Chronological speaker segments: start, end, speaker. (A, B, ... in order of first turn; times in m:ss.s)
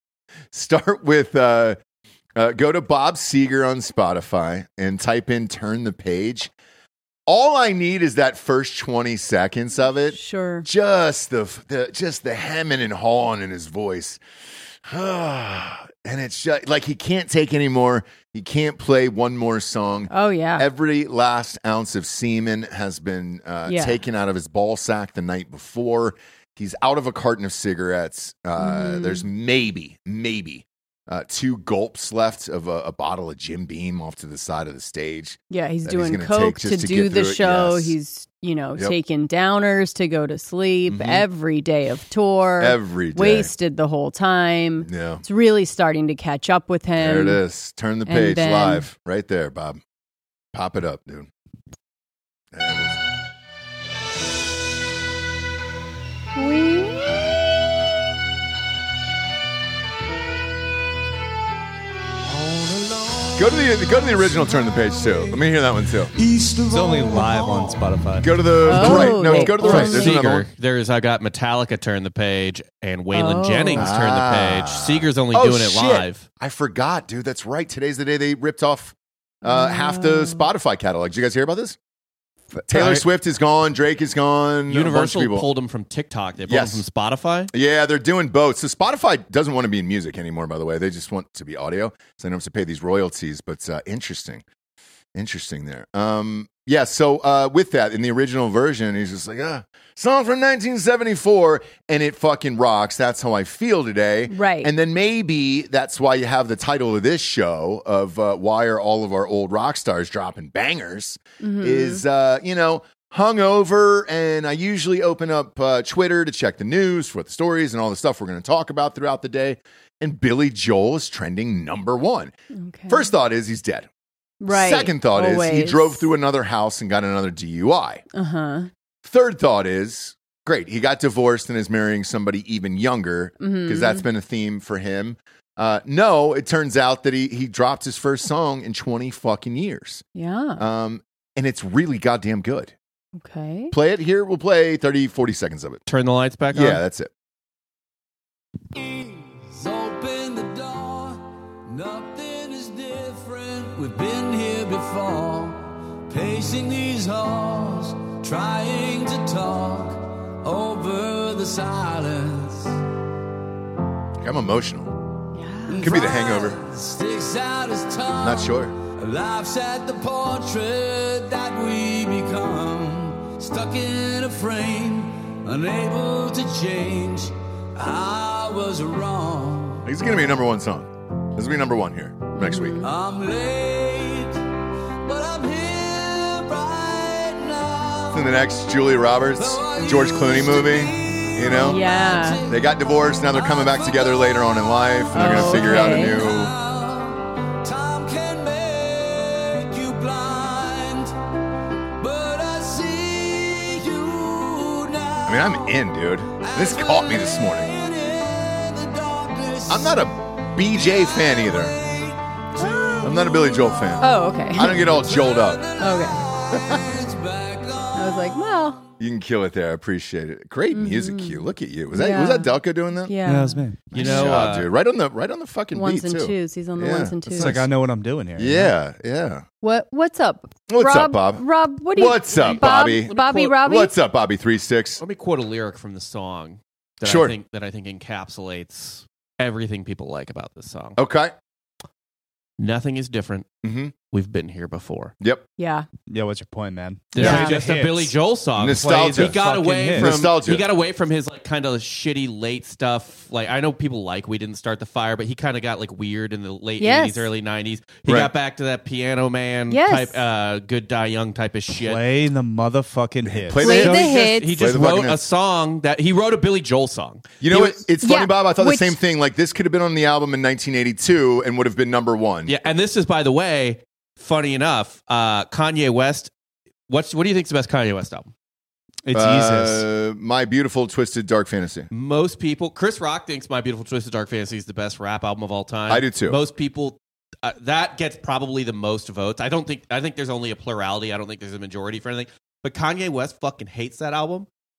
0:00.5-0:01.8 A
0:02.4-0:06.5 A
0:07.3-0:14.2 A
0:10.1-0:10.7 B
0:14.8-0:38.0 A
0:20.1-0:20.7 B
0:23.7-0:24.0 B
0:28.6-0:29.2 B
0:35.5-0:47.4 B
0:40.9-0:41.2 A
0:42.6-0:43.5 A
0:44.8-0:45.2 A
0:47.0-0:49.8 A
0:48.1-0:48.8 B
0:50.5-0:51.3 A
0:52.5-0:53.0 A
0:56.4-0:57.2 B
1:02.3-1:05.5 C
1:03.4-1:06.1 A
1:06.1-1:08.2 C
1:06.7-1:10.0 D
1:08.2-1:10.5 A
1:08.7-1:10.2 B
1:09.6-1:16.2 E
1:13.1-1:13.9 B
1:13.8-1:21.8 A
1:19.4-1:20.5 B
1:22.7-1:25.5 A
1:24.7-1:27.5 E
1:26.5-1:26.8 A
1:27.5-1:34.4 A
1:35.2-2:02.3 A
1:44.3-1:44.7 B
1:51.4-1:52.0 B
2:02.6-2:03.1 B
2:02.9-2:03.9 A
2:04.4-2:06.1 B
2:04.5-2:08.0 A
2:08.1-2:08.7 B
2:09.0-2:20.0 A
2:13.4-2:14.0 B
2:20.2-2:20.6 B
2:20.6-2:22.7 A
2:23.2-2:23.7 B
2:23.7-2:25.8 A
2:25.9-2:26.8 E
2:26.5-2:27.1 A
2:28.7-2:42.8 C
2:44.2-2:44.9 A
2:45.3-2:46.0 B
2:45.7-2:59.9 C
2:45.8-2:46.6 A
2:48.2-2:48.8 A
2:59.8-3:02.8 A
3:02.4-3:02.9 B
3:02.8-3:08.3 C
3:08.1-3:11.8 A
3:09.4-3:21.2 C
3:11.5-3:12.4 B
3:12.5-3:16.6 A
3:15.1-3:16.2 B
3:22.0-3:25.8 C
3:25.3-3:27.8 A
3:26.4-3:38.6 C
3:29.7-3:31.8 A
3:32.6-3:32.9 B
3:33.0-3:35.7 A
3:34.0-3:34.9 B
3:35.8-3:36.3 B
3:36.5-3:37.0 A
3:38.0-3:38.8 B
3:39.0-3:43.2 A
3:40.7-3:44.4 B
3:43.2-3:43.9 D
3:43.9-3:47.7 A
3:43.9-3:44.7 E
3:45.8-3:47.6 B
3:47.3-3:48.7 D
3:48.4-3:49.4 A
3:49.6-3:53.9 B
3:50.7-3:51.4 A
3:52.0-3:55.0 A
3:52.3-3:53.4 E
3:55.0-4:01.0 E
3:57.0-3:57.4 A
4:01.0-4:01.3 A
4:02.6-4:03.5 E
4:03.6-4:03.9 A
4:04.1-4:05.1 E
4:05.6-4:05.9 B
4:06.1-4:08.1 D
4:07.1-4:22.0 E
4:07.2-4:07.6 B
4:08.6-4:09.4 A
4:08.7-4:10.2 D
4:10.0-4:10.6 A
4:16.8-4:17.3 B
4:18.1-4:18.3 A
4:19.7-4:20.2 B
4:21.8-4:23.9 D
4:23.2-4:25.2 A
4:23.6-4:24.6 B
4:23.7-4:27.8 E
4:27.4-4:32.6 A
4:28.0-4:29.0 B
4:32.5-4:36.3 E
4:36.9-4:38.3 E
4:39.0-4:39.8 D
4:39.1-4:41.9 A
4:41.9-4:54.5 E
4:45.9-4:46.4 A